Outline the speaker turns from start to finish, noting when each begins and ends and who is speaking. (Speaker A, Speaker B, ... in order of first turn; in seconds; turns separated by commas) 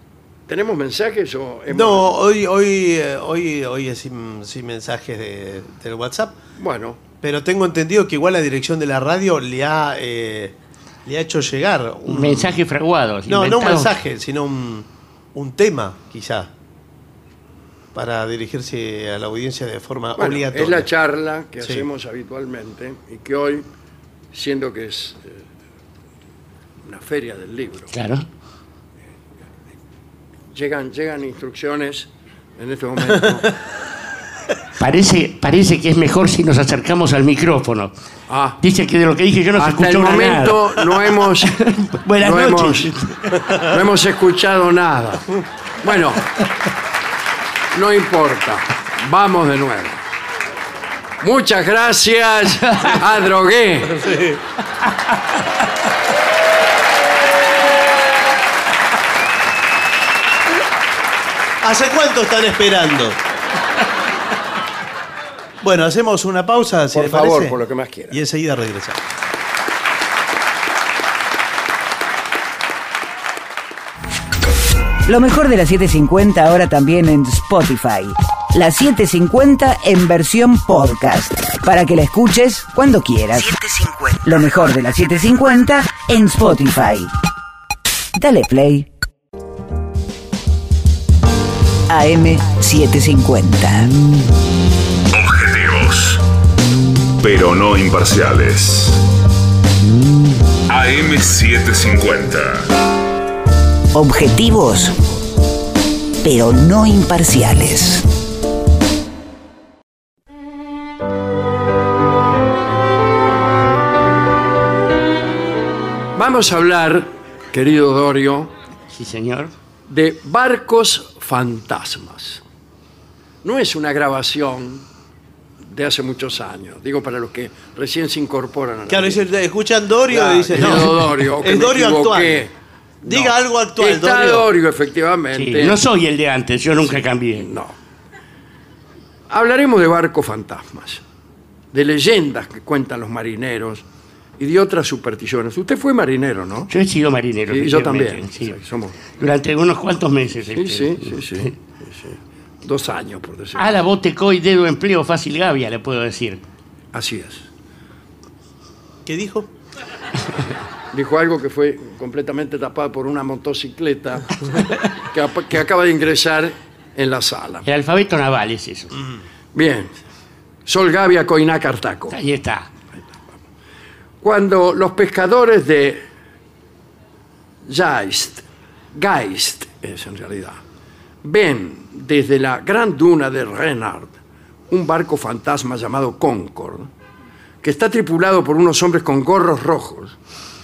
Speaker A: 0.5-2.1, Speaker B: 1.7-6.4, Speaker A: 6.5-7.0, Speaker B: 7.2-12.6, Speaker C: 12.1-13.9, Speaker B: 13.3-16.5, Speaker B: 17.9-20.9, Speaker A: 20.2-23.6, Speaker B: 21.6-21.9, Speaker A: 24.3-25.4, Speaker A: 26.8-27.9, Speaker C: 27.9-28.2, Speaker A: 30.5-33.5, Speaker C: 34.8-37.9, Speaker A: 38.3-38.6, Speaker C: 38.6-43.4, Speaker A: 39.5-41.5, Speaker A: 42.2-42.9, Speaker B: 43.4-43.7, Speaker A: 43.6-45.3, Speaker A: 45.8-46.3, Speaker A: 47.7-50.0, Speaker A: 51.2-54.0, Speaker B: 53.9-54.4, Speaker B: 61.6-63.2, Speaker B: 65.6-67.6, Speaker A: 66.9-68.2, Speaker B: 68.1-69.0, Speaker D: 75.0-87.1, Speaker D: 88.1-88.9, Speaker D: 91.9-93.9, Speaker E: 95.1-96.2, Speaker E: 97.2-99.0, Speaker E: 100.7-102.7, Speaker D: 103.9-105.0, Speaker D: 106.2-108.0, Speaker A: 116.2-118.5, Speaker C: 118.9-119.5, Speaker A: 119.9-122.4, Speaker A: 123.4-124.9, Speaker A: 125.6-129.3, Speaker B: 128.9-132.5, Speaker A: 130.1-135.8, Speaker B: 133.0-134.5, Speaker C: 135.3-137.5, Speaker A: 136.9-137.8, Speaker A: 139.3-141.0, Speaker A: 141.7-143.8, Speaker A: 144.4-146.7, Speaker C: 146.7-148.6, Speaker A: 147.5-149.0, Speaker C: 149.2-151.5, Speaker A: 150.5-153.8, Speaker C: 153.6-156.4, Speaker A: 156.9-157.5, Speaker B: 159.1-159.5, Speaker A: 160.9-164.5, Speaker A: 165.0-167.7, Speaker C: 167.6-168.9, Speaker B: 168.9-169.2, Speaker A: 169.5-169.9, Speaker A: 170.7-172.2, Speaker C: 172.1-172.7, Speaker A: 174.2-176.0, Speaker A: 177.7-180.6, Speaker A: 181.2-184.2, Speaker A: 184.7-186.9, Speaker A: 187.6-190.2